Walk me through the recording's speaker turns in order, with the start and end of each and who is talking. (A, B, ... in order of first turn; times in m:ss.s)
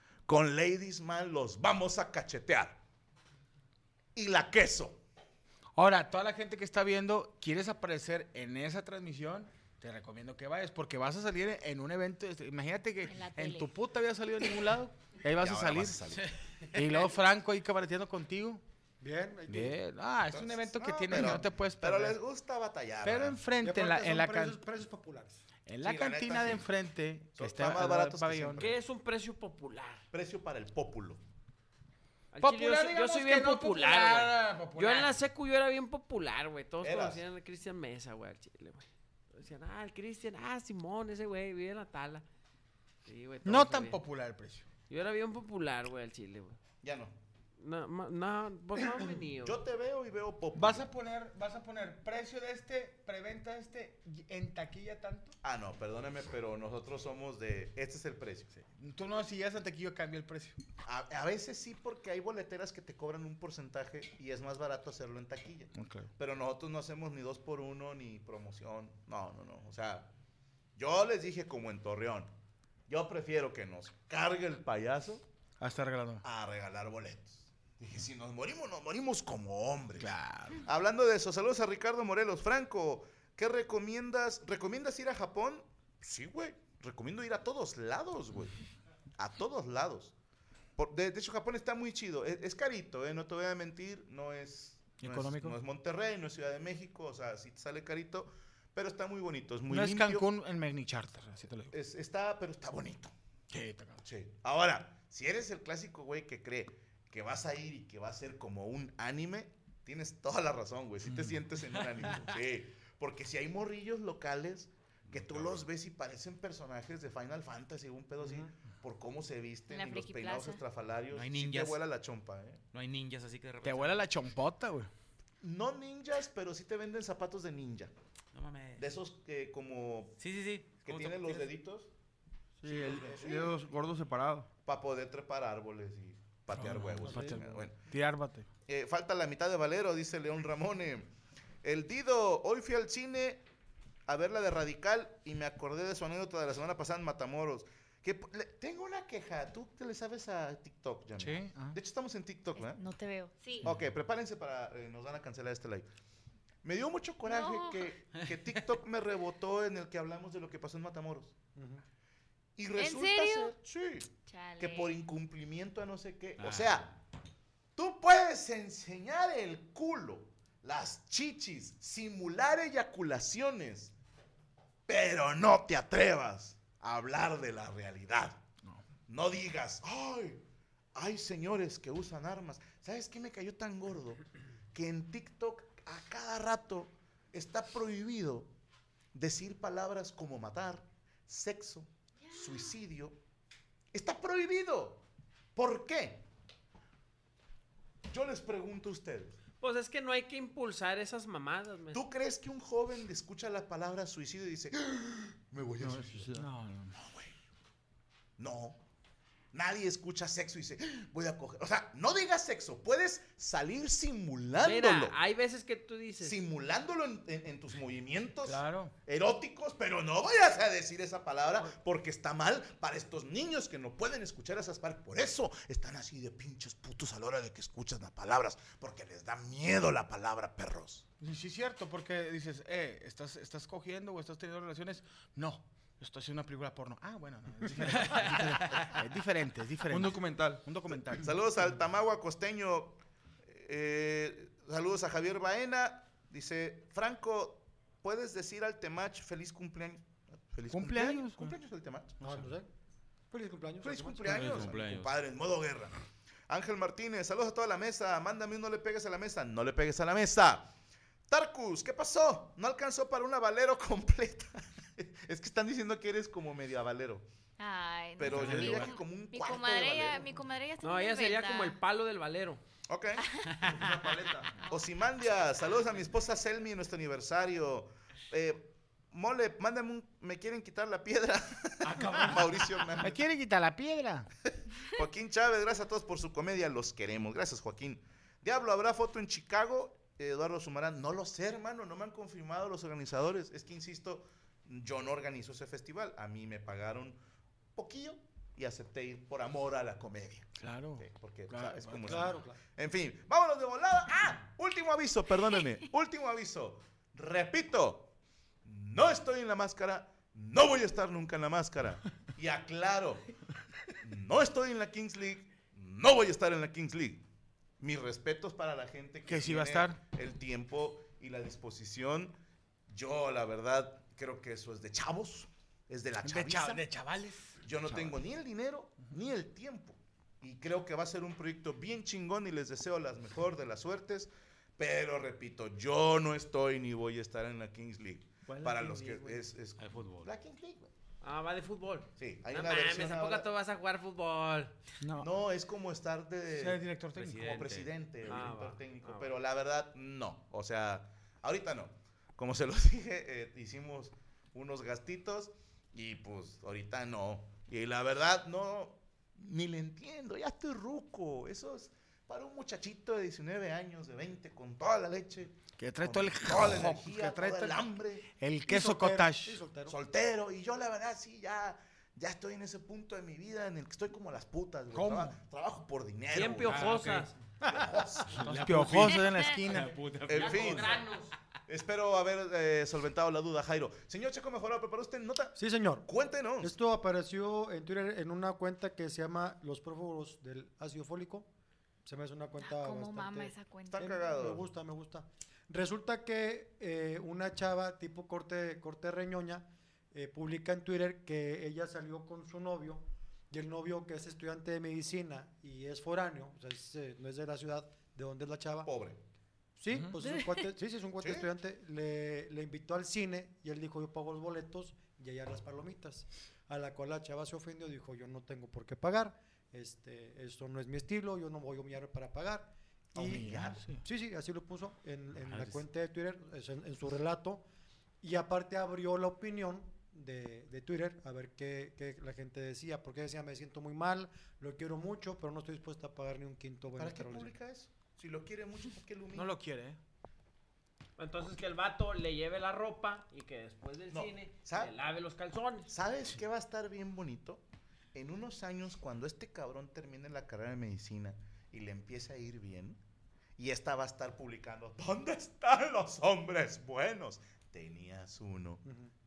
0:00.3-0:02.8 A
0:04.2-0:05.0 A
0:05.8-0:16.0 B
0:13.1-0:13.7 C
0:15.3-0:16.3 A
0:16.8-0:18.6 B
0:19.0-0:19.8 D
0:19.5-0:22.2 B
0:20.3-0:23.4 A
0:23.0-0:24.6 B
0:23.6-0:25.4 D
0:25.7-0:28.7 B
0:25.8-0:26.7 A
0:27.4-0:28.7 A
0:28.6-0:30.0 E
0:30.1-0:31.2 A
0:32.3-0:42.2 E
0:32.4-0:35.2 B
0:36.8-0:37.2 A
0:43.1-0:44.0 E
0:43.4-0:44.7 B
0:44.9-0:46.6 E
0:46.8-0:47.2 A
0:47.6-0:49.6 E
0:49.4-0:50.9 A
0:50.5-0:55.4 B
0:55.4-0:58.5 A
0:58.5-1:00.6 B
1:00.8-1:10.1 A
1:05.8-1:06.1 B
1:10.8-1:12.3 A
1:12.9-1:15.2 A
1:15.6-1:16.2 B
1:16.2-1:28.6 A
1:20.0-1:20.6 B
1:29.2-1:30.2 A
1:30.8-1:40.3 A
1:35.0-1:35.6 B
1:39.7-1:41.8 B
1:41.7-1:43.1 A
1:43.5-1:44.0 B
1:44.0-2:02.6 A
1:51.1-1:51.3 B
1:55.1-1:55.6 F
1:58.2-1:58.5 D
1:59.7-2:00.6 C
2:01.1-2:01.8 F
2:02.7-2:04.1 F
2:03.6-2:04.9 B
2:05.4-2:07.9 A
2:08.3-2:08.9 F
2:08.8-2:10.2 A
2:10.2-2:11.5 F
2:10.8-2:11.9 A
2:12.6-2:14.5 G
2:12.6-2:13.6 A
2:14.6-2:17.8 A
2:16.5-2:18.5 B
2:17.1-2:17.4 D
2:18.7-2:21.1 A
2:21.6-2:23.4 A
2:24.1-2:32.8 A
2:31.2-2:31.8 B
2:32.6-2:33.7 C
2:33.6-2:35.9 A
2:36.6-2:41.4 A
2:37.3-2:37.8 C
2:41.6-2:41.8 D
2:42.6-2:46.9 A
2:42.8-2:43.5 C
2:44.3-2:44.9 C
2:46.4-2:47.0 F
2:47.8-2:53.9 A
2:54.9-2:58.4 A
2:59.1-3:00.4 A
3:00.9-3:04.2 A
3:04.7-3:08.5 A
3:09.1-3:13.2 A
3:13.9-3:16.2 A
3:18.1-3:19.4 A
3:19.6-3:22.0 E
3:21.9-3:26.4 A
3:25.8-3:27.0 B
3:26.1-3:26.4 G
3:27.0-3:27.3 A
3:28.4-3:28.8 A
3:29.5-3:35.2 A
3:34.6-3:36.4 E
3:36.2-3:51.1 A
3:38.4-3:38.9 B
3:51.2-4:01.4 B
3:57.9-3:58.9 F
3:59.9-4:00.6 G
4:01.1-4:12.2 A
4:10.7-4:11.5 B
4:12.2-4:12.7 D
4:13.3-4:14.7 D
4:13.8-4:16.0 A
4:14.2-4:15.1 F
4:16.5-4:20.7 A
4:21.3-4:27.3 A
4:27.6-4:31.8 C
4:28.2-4:30.4 A
4:28.3-4:28.8 F
4:28.3-4:28.8 B
4:30.8-4:32.6 E
4:32.9-4:33.3 A
4:33.2-4:33.6 C
4:33.7-4:34.5 G
4:34.6-4:43.2 A
4:41.8-4:42.6 F
4:43.0-4:44.3 B
4:44.9-4:57.2 A
4:57.8-5:08.1 A
5:00.6-5:02.4 B
5:02.1-5:02.6 D
5:08.6-5:13.3 A
5:14.0-5:17.2 A
5:17.8-5:22.4 A
5:19.3-5:20.0 B
5:22.9-5:26.8 A
5:26.2-5:28.1 B
5:27.6-5:40.9 A
5:38.5-5:39.4 E
5:39.8-5:40.3 F
5:41.2-5:44.8 E
5:42.2-5:43.5 A
5:45.0-5:45.3 B
5:45.2-6:08.3 A
5:46.5-5:47.6 B
5:47.2-5:47.9 F
5:48.3-5:49.3 E
6:05.8-6:07.8 B
6:08.4-6:09.6 B
6:08.6-6:10.0 D
6:09.9-6:16.9 A
6:14.9-6:15.4 B
6:16.3-6:17.3 E
6:16.7-6:17.3 F
6:17.6-6:18.5 A
6:18.4-6:20.0 B
6:18.4-6:21.3 F
6:20.3-6:21.1 A
6:21.7-6:26.8 A
6:25.6-6:26.1 D
6:26.6-6:31.5 D
6:32.0-6:48.9 D
6:32.6-6:34.2 C
6:33.9-6:34.7 A
6:48.8-6:49.2 A
6:49.8-7:07.6 D
6:51.2-6:51.5 A
7:03.2-7:03.8 A
7:03.2-7:04.0 B
7:05.4-7:05.8 F
7:08.2-7:17.5 D
7:17.0-7:19.5 A
7:19.3-7:20.0 B
7:21.2-7:25.9 E
7:24.1-7:24.9 A
7:25.9-7:33.0 A
7:33.6-7:38.8 A
7:38.8-7:39.1 D